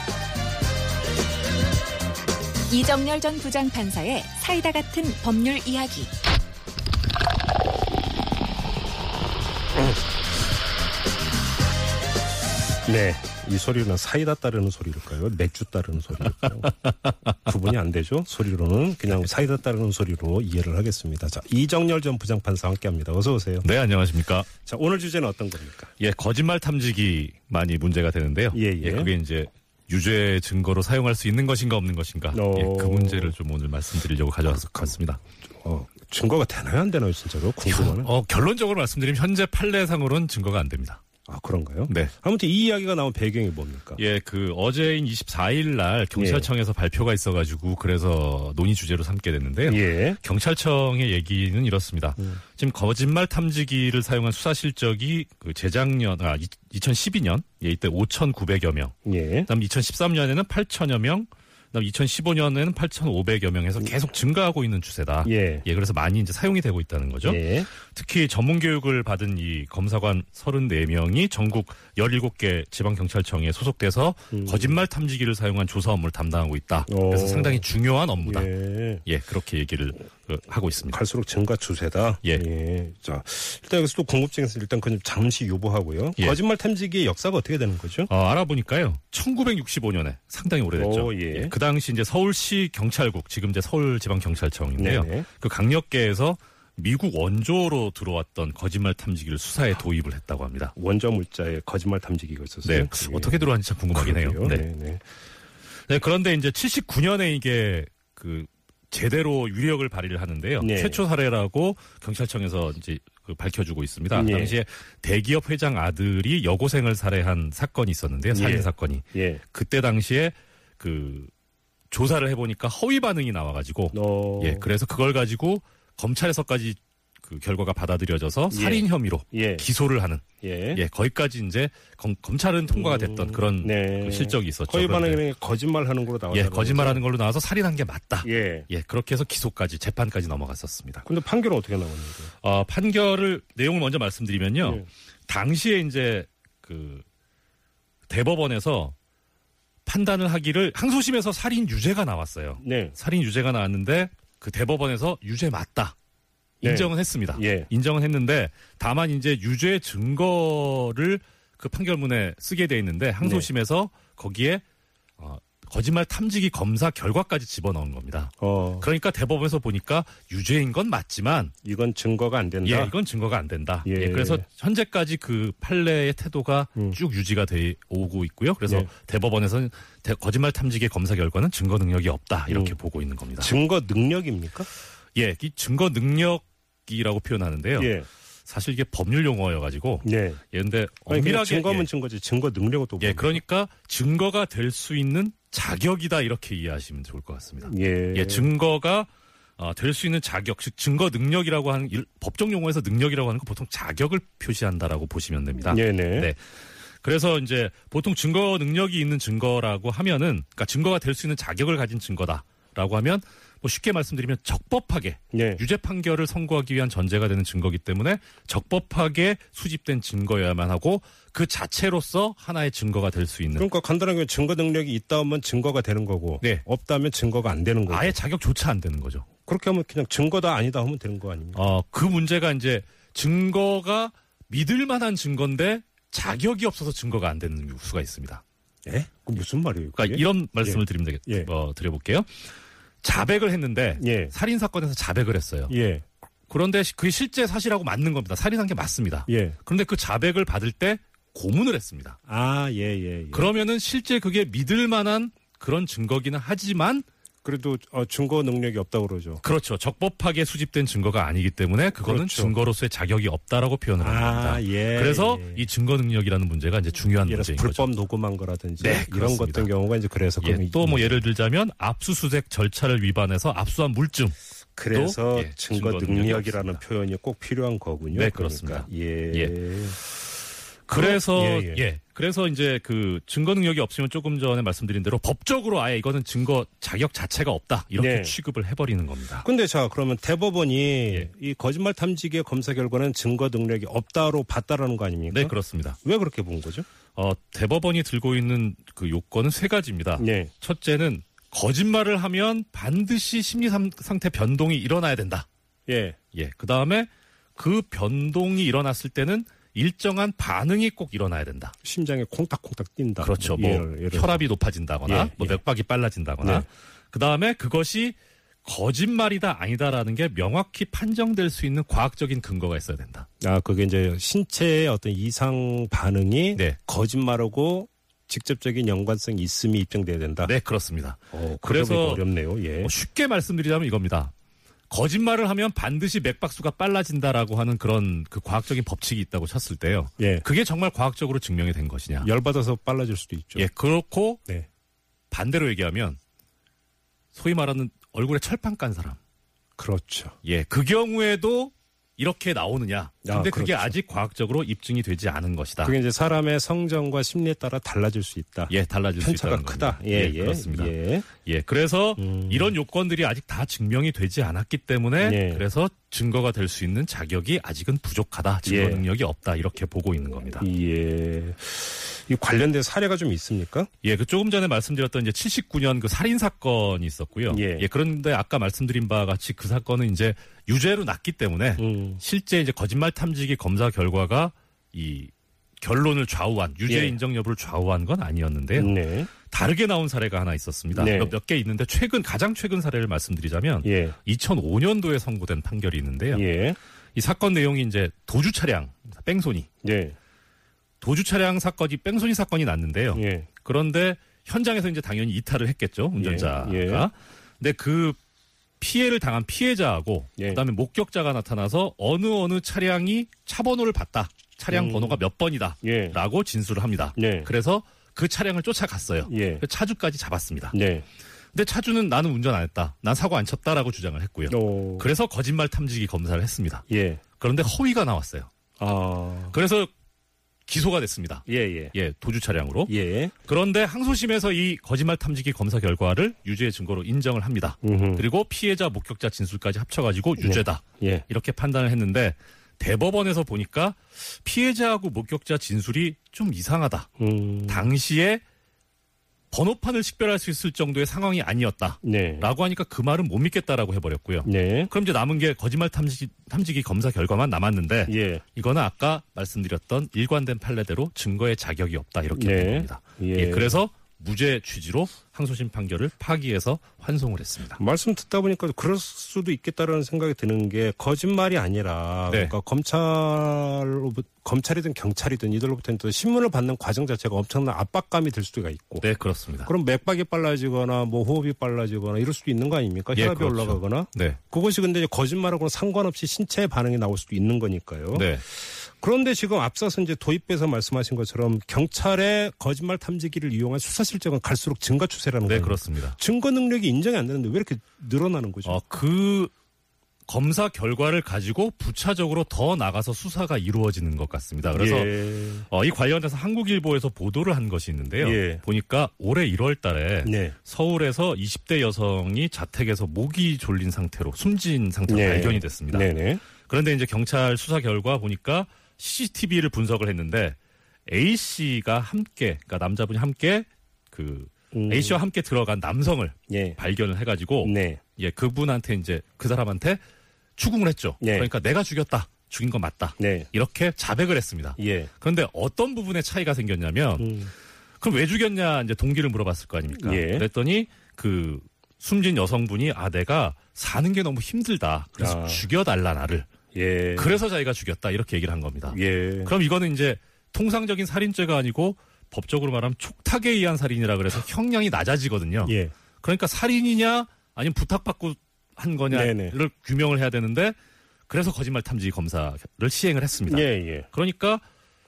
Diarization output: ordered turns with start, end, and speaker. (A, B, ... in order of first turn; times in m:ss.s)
0:02.7-0:06.1 A
0:12.8-0:16.8 B
0:16.8-0:17.3 C
0:17.4-0:23.7 B
0:23.6-0:24.5 C
0:24.7-0:25.9 B
0:26.0-0:35.2 C
0:28.5-0:29.1 B
0:32.3-0:33.4 B
0:34.5-0:34.9 B
0:35.6-0:38.1 B
0:37.7-0:41.0 C
0:41.3-0:44.0 B
0:41.9-0:42.1 C
0:44.0-1:21.0 C
0:46.2-0:46.5 B
0:49.7-0:50.2 B
0:59.1-0:59.5 B
1:05.2-1:05.7 B
1:07.2-1:07.7 B
1:14.3-1:14.8 B
1:16.9-1:17.7 B
1:18.2-1:19.0 B
1:20.9-1:28.1 B
1:28.1-1:40.7 C
1:30.8-1:31.5 B
1:34.8-1:35.3 B
1:40.8-1:45.0 B
1:42.6-1:44.6 C
1:45.9-2:01.3 C
1:50.6-1:51.0 B
1:54.1-1:54.6 B
1:58.3-1:59.4 B
2:01.9-2:15.2 C
2:03.9-2:04.7 B
2:08.5-2:09.7 B
2:10.4-2:10.8 B
2:12.7-2:17.0 B
2:16.3-2:21.1 C
2:18.2-2:18.7 B
2:21.0-2:22.3 B
2:22.4-2:27.1 C
2:24.6-2:24.9 B
2:28.1-2:29.0 C
2:29.8-2:36.0 C
2:32.6-2:33.0 B
2:36.6-2:37.7 B
2:36.6-2:44.6 C
2:43.2-2:43.5 B
2:45.2-2:51.5 C
2:48.4-2:48.9 B
2:51.6-2:52.9 B
2:52.6-3:03.5 C
2:53.8-2:54.4 B
3:02.5-3:02.8 B
3:03.4-3:04.7 B
3:05.1-3:07.9 C
3:07.8-3:08.1 B
3:08.5-3:11.9 C
3:10.0-3:10.4 B
3:11.1-3:13.4 B
3:13.0-3:26.4 C
3:17.6-3:18.5 B
3:25.7-3:26.3 B
3:27.0-3:43.7 C
3:35.3-3:35.6 B
3:43.6-3:48.2 B
3:47.9-3:49.3 C
3:49.5-3:51.6 B
3:51.5-3:58.4 C
3:58.9-4:01.5 B
4:00.0-4:02.3 C
4:03.0-4:05.8 C
4:04.0-4:04.3 B
4:05.7-4:06.0 B
4:06.5-4:12.2 C
4:09.3-4:09.6 B
4:12.3-4:13.5 B
4:13.3-4:17.1 C
4:17.4-4:19.4 B
4:19.4-4:27.9 C
4:22.0-4:22.6 B
4:24.0-4:25.7 B
4:27.3-4:31.3 B
4:28.8-4:29.7 C
4:30.4-4:34.4 C
4:34.8-4:40.0 B
4:34.9-4:36.8 C
4:38.1-4:39.6 C
4:40.9-4:49.5 C
4:40.9-4:41.8 B
4:48.0-4:48.4 B
4:49.4-4:56.9 B
4:55.3-4:56.0 C
4:57.2-5:05.5 C
5:00.2-5:00.5 B
5:05.9-5:06.2 B
5:06.3-5:11.8 C
5:11.8-5:14.5 B
5:13.2-5:23.3 C
5:15.1-5:15.6 B
5:23.4-5:30.5 B
5:30.4-5:32.2 C
5:31.3-5:32.9 B
5:32.8-5:34.3 C
5:34.9-5:42.3 C
5:40.2-5:40.5 B
5:42.2-5:43.7 B
5:43.6-5:44.4 C
5:45.3-5:46.2 C
5:47.3-5:49.2 C
5:49.8-5:50.4 B
5:50.4-5:56.0 C
5:53.2-5:54.0 B
5:55.8-6:01.3 B
5:58.7-6:10.7 C
6:02.2-6:02.8 B
6:05.2-6:05.6 B
6:08.6-6:09.0 B
6:10.6-6:13.9 B
6:14.0-6:36.4 C
6:17.5-6:17.9 B
6:21.8-6:22.2 B
6:26.9-6:27.2 B
6:28.8-6:29.3 B
6:31.0-6:31.4 B
6:33.8-6:34.2 B
6:36.3-6:36.8 B
6:37.2-6:39.7 C
6:39.8-6:40.2 B
6:41.0-6:48.2 C
6:43.1-6:43.5 B
6:46.2-6:47.1 B
6:48.8-7:00.8 C
6:54.7-6:55.2 B
6:55.8-6:56.2 B
6:57.2-6:57.5 B
6:59.2-6:59.6 B
7:00.7-7:01.0 B
7:01.5-7:06.8 C
7:04.5-7:05.1 B
7:06.9-7:07.2 B
7:07.4-7:08.5 C
7:08.8-7:09.6 B
7:09.5-7:09.9 C
7:10.7-7:27.1 C
7:11.5-7:12.0 B
7:12.9-7:13.3 B
7:17.8-7:18.2 B
7:20.4-7:21.3 B
7:27.2-7:27.9 B
7:27.7-7:28.4 C
7:29.5-7:47.8 C
7:32.0-7:32.5 B
7:34.4-7:34.9 B
7:38.1-7:38.4 B
7:42.3-7:43.8 B
7:47.8-7:59.1 B
7:52.3-7:52.6 C
7:59.0-7:59.7 C
7:59.6-8:18.8 B
8:03.1-8:04.4 C
8:08.1-8:08.4 C
8:15.4-8:16.2 C
8:18.6-8:19.5 C
8:20.3-8:50.0 C
8:24.7-8:25.7 B
8:28.2-8:28.6 B
8:30.2-8:30.6 B
8:35.1-8:36.4 B
8:44.7-8:45.2 B
8:46.5-8:46.8 B
8:47.6-8:48.0 B
8:50.6-8:57.4 C
8:51.2-8:51.5 B
8:53.2-8:53.5 B
8:54.8-8:55.1 B
8:57.2-8:57.5 B
8:58.0-9:06.5 C
9:00.0-9:00.5 B
9:05.2-9:05.7 B
9:06.7-9:07.4 B
9:07.2-9:20.8 C
9:08.9-9:09.5 B
9:15.6-9:15.9 B
9:19.1-9:19.6 B
9:21.3-9:24.6 C
9:23.5-9:24.1 B